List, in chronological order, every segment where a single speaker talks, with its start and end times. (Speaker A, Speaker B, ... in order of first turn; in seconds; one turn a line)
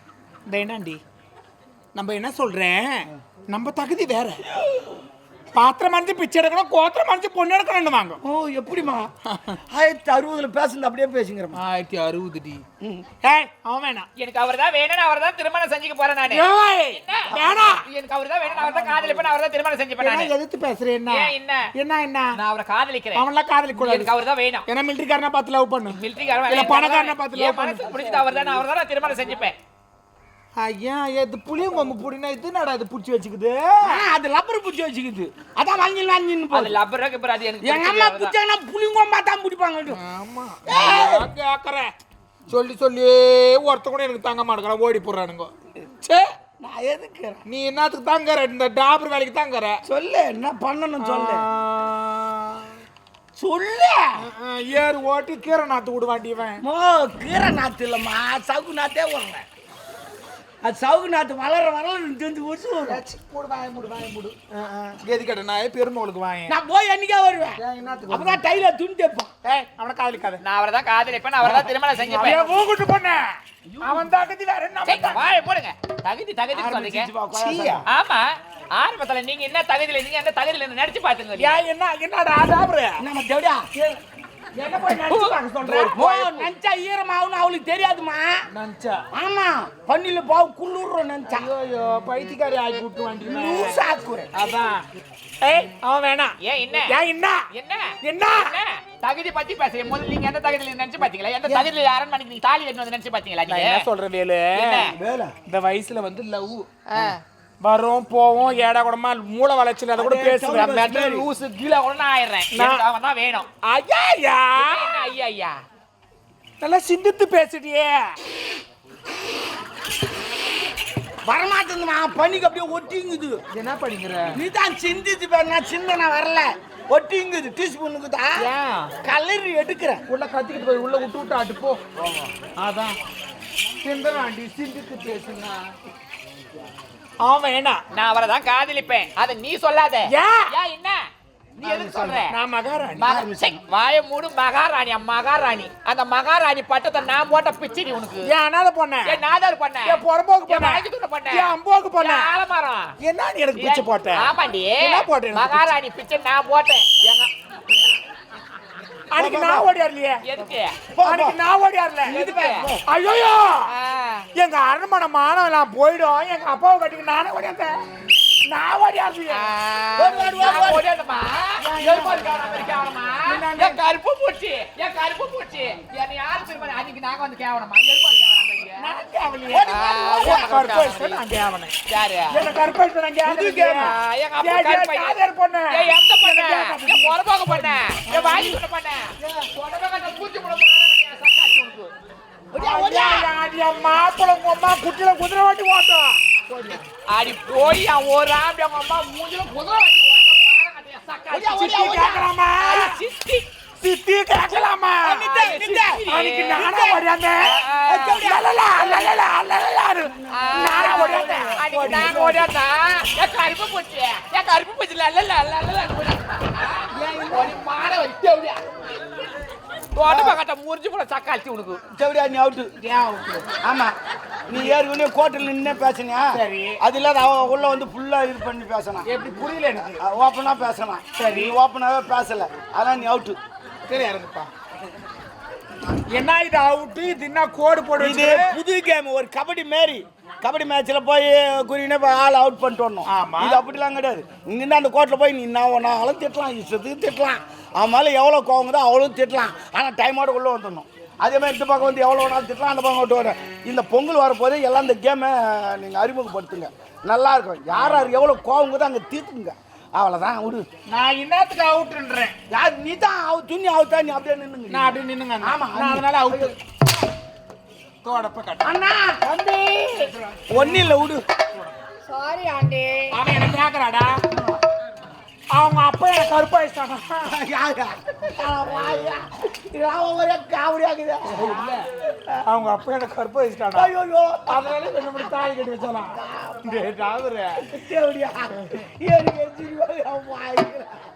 Speaker A: 0.5-1.0
Speaker A: 1.9-4.4
Speaker A: 5.5-8.2
Speaker B: 8.2-9.1
Speaker A: 9.3-9.6
Speaker B: 9.7-11.6
Speaker A: 11.5-12.6
Speaker B: 12.8-13.1
Speaker A: 13.2-14.1
Speaker C: 14.2-20.3
Speaker A: 16.3-17.8
Speaker B: 17.3-17.7
Speaker B: 18.4-19.3
Speaker A: 20.0-22.3
Speaker C: 21.1-21.6
Speaker C: 22.3-24.7
Speaker A: 23.1-24.1
Speaker A: 24.7-27.9
Speaker C: 25.9-29.5
Speaker B: 27.8-28.6
Speaker A: 30.6-34.0
Speaker B: 33.8-36.8
Speaker C: 36.5-38.4
Speaker B: 37.6-40.0
Speaker A: 39.9-41.9
Speaker B: 40.6-41.3
Speaker A: 42.5-45.5
Speaker B: 46.6-47.4
Speaker A: 47.5-49.8
Speaker B: 49.9-51.4
Speaker A: 51.0-52.7
Speaker B: 53.4-54.1
Speaker A: 54.2-56.6
Speaker B: 56.6-59.4
Speaker B: 60.6-63.0
Speaker A: 62.9-66.5
Speaker B: 66.5-69.3
Speaker A: 67.6-68.4
Speaker A: 69.4-70.4
Speaker C: 70.4-72.4
Speaker A: 72.1-73.3
Speaker B: 72.2-72.5
Speaker A: 73.8-75.2
Speaker C: 74.8-77.1
Speaker A: 76.5-77.8
Speaker B: 76.9-77.8
Speaker C: 77.9-81.5
Speaker A: 81.3-83.0
Speaker B: 83.0-83.7
Speaker A: 84.5-86.5
Speaker C: 85.1-86.2
Speaker B: 85.7-88.4
Speaker A: 88.5-89.0
Speaker B: 89.1-91.5
Speaker A: 91.3-93.8
Speaker B: 93.2-94.3
Speaker A: 94.3-94.8
Speaker A: 95.4-96.3
Speaker C: 96.4-96.9
Speaker A: 96.8-97.4
Speaker C: 97.5-103.9
Speaker A: 98.0-98.5
Speaker A: 103.5-104.9
Speaker C: 104.5-104.9
Speaker B: 104.8-105.3
Speaker A: 105.5-111.2
Speaker B: 110.0-111.3
Speaker C: 110.5-113.5
Speaker A: 112.5-112.8
Speaker A: 113.6-115.0
Speaker C: 114.5-115.6
Speaker A: 116.6-118.1
Speaker B: 121.2-123.4
Speaker A: 123.5-124.4
Speaker B: 124.3-128.4
Speaker A: 128.4-128.9
Speaker B: 129.0-130.0
Speaker A: 130.1-131.8
Speaker B: 132.0-132.3
Speaker A: 132.6-133.0
Speaker A: 133.8-135.7
Speaker A: 137.2-137.8
Speaker C: 137.9-141.0
Speaker A: 140.1-140.5
Speaker B: 141.6-142.0
Speaker C: 141.6-142.3
Speaker A: 141.7-143.0
Speaker C: 143.0-148.3
Speaker B: 143.1-143.6
Speaker A: 148.3-149.2
Speaker C: 149.0-152.9
Speaker A: 149.9-152.3
Speaker A: 153.0-154.3
Speaker C: 153.6-157.2
Speaker A: 154.8-155.7
Speaker A: 159.1-160.2
Speaker B: 159.2-159.7
Speaker C: 160.2-160.8
Speaker B: 160.9-161.4
Speaker A: 161.0-162.2
Speaker B: 162.1-162.8
Speaker C: 162.1-162.7
Speaker A: 162.9-163.7
Speaker C: 163.7-164.3
Speaker A: 164.3-167.7
Speaker A: 168.4-169.5
Speaker C: 169.3-178.9
Speaker B: 170.0-170.8
Speaker A: 171.6-172.2
Speaker B: 171.8-172.2
Speaker A: 173.3-173.8
Speaker A: 178.8-181.7
Speaker B: 179.5-180.5
Speaker C: 179.5-181.2
Speaker C: 181.9-182.4
Speaker A: 182.3-188.6
Speaker C: 183.3-191.9
Speaker B: 183.6-183.8
Speaker B: 188.1-188.6
Speaker A: 189.2-189.5
Speaker B: 192.5-193.3
Speaker A: 192.6-196.8
Speaker C: 197.1-202.1
Speaker B: 201.3-202.3
Speaker A: 201.5-203.0
Speaker C: 202.6-203.4
Speaker A: 203.8-205.3
Speaker B: 205.0-206.0
Speaker C: 205.2-208.2
Speaker A: 206.1-207.6
Speaker B: 206.6-207.0
Speaker B: 207.8-209.1
Speaker A: 208.2-212.3
Speaker B: 210.0-212.4
Speaker C: 210.3-218.6
Speaker A: 216.9-217.5
Speaker C: 219.9-221.8
Speaker B: 220.1-220.4
Speaker B: 221.9-222.7
Speaker A: 222.8-223.4
Speaker B: 223.6-223.9
Speaker B: 224.5-229.1
Speaker A: 226.3-226.8
Speaker A: 229.1-230.0
Speaker B: 230.0-233.4
Speaker A: 231.2-231.6
Speaker A: 233.9-234.5
Speaker A: 236.1-238.5
Speaker B: 238.0-260.6
Speaker A: 243.1-243.6
Speaker A: 260.9-262.3
Speaker B: 262.5-266.5
Speaker A: 264.7-266.6
Speaker A: 268.0-268.7
Speaker B: 268.6-269.2
Speaker C: 269.3-269.9
Speaker A: 270.5-271.0
Speaker B: 270.5-271.2
Speaker C: 272.1-273.1
Speaker A: 273.1-274.2
Speaker B: 274.3-274.6
Speaker A: 275.5-277.3
Speaker B: 277.3-281.7
Speaker A: 281.3-281.8
Speaker A: 282.4-283.9
Speaker B: 283.7-284.5
Speaker A: 284.5-287.6
Speaker B: 286.1-290.9